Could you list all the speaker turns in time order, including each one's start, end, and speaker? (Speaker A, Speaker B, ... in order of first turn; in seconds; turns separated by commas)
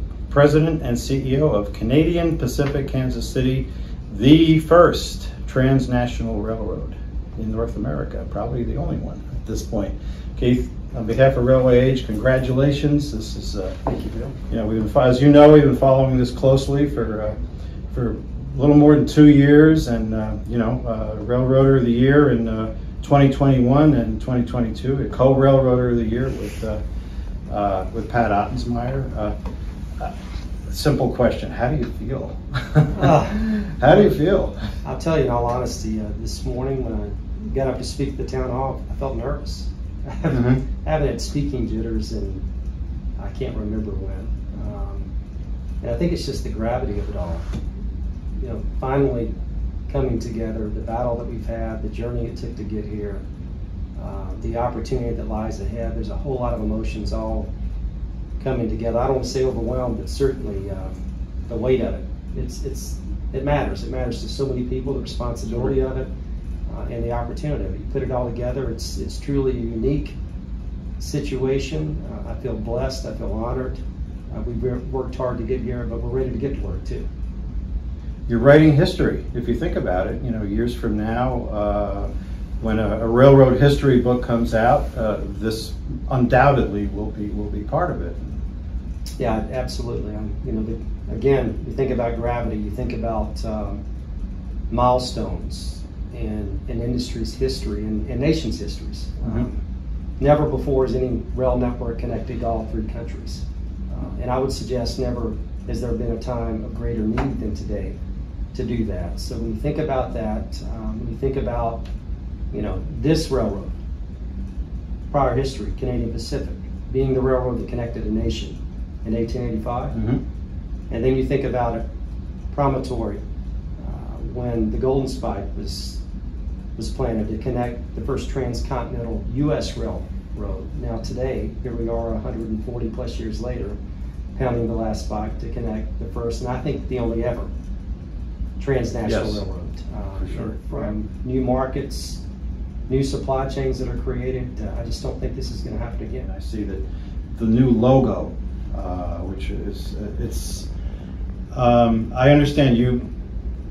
Speaker A: 0.3-13.8, Speaker B: 13.8-14.3, Speaker A: 14.5-17.4, Speaker A: 17.9-26.8, Speaker A: 27.5-29.3, Speaker A: 30.7-34.6, Speaker B: 33.0-34.1, Speaker B: 34.8-42.4, Speaker A: 40.3-40.6, Speaker B: 43.2-45.1, Speaker B: 45.8-47.5, Speaker B: 48.4-49.3, Speaker B: 49.9-53.2, Speaker B: 54.0-57.5, Speaker B: 58.4-66.1, Speaker B: 66.7-70.2, Speaker B: 71.0-73.8, Speaker B: 74.3-77.1, Speaker A: 78.3-82.1, Speaker A: 82.6-88.4, Speaker B: 89.2-93.8, Speaker B: 94.7-99.6, Speaker B: 100.2-108.0, Speaker B: 108.5-111.8, Speaker B: 112.5-113.7, Speaker B: 115.1-120.0, Speaker A: 119.9-120.2, Speaker B: 120.9-121.8, Speaker B: 122.5-123.2, Speaker B: 123.8-126.0, Speaker B: 126.8-133.8, Speaker B: 134.4-137.5, Speaker B: 138.6-142.2, Speaker A: 139.1-139.4, Speaker A: 140.2-140.5, Speaker B: 142.9-146.3, Speaker A: 146.2-146.8, Speaker A: 147.4-150.7, Speaker A: 151.5-153.0